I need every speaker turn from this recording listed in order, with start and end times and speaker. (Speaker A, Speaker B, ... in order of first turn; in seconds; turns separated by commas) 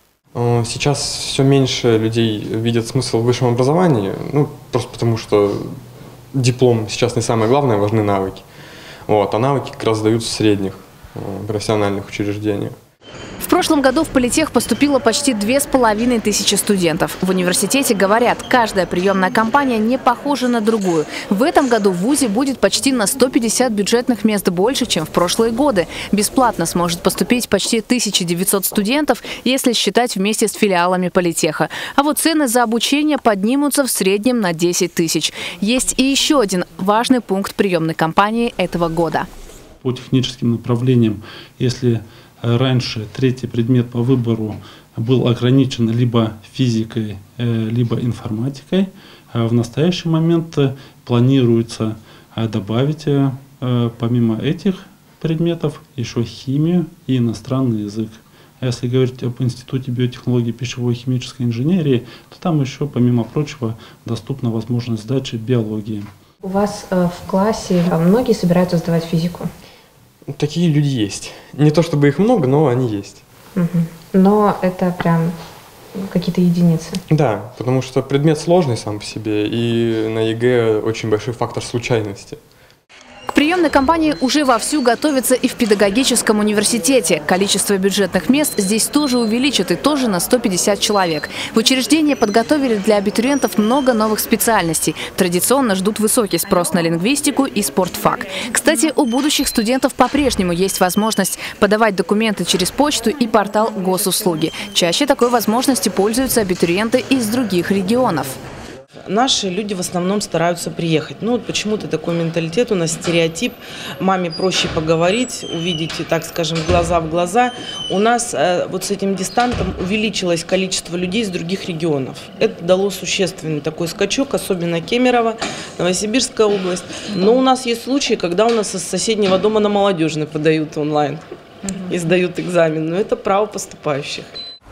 Speaker A: 0.3-5.8, Speaker A: 6.3-8.4, Speaker A: 9.1-12.8, Speaker B: 13.4-39.3, Speaker C: 39.8-66.1, Speaker D: 66.4-69.5, Speaker A: 70.3-73.2, Speaker D: 73.5-75.3, Speaker D: 75.9-77.0, Speaker A: 77.1-82.4, Speaker B: 83.3-108.4, Speaker E: 109.1-134.3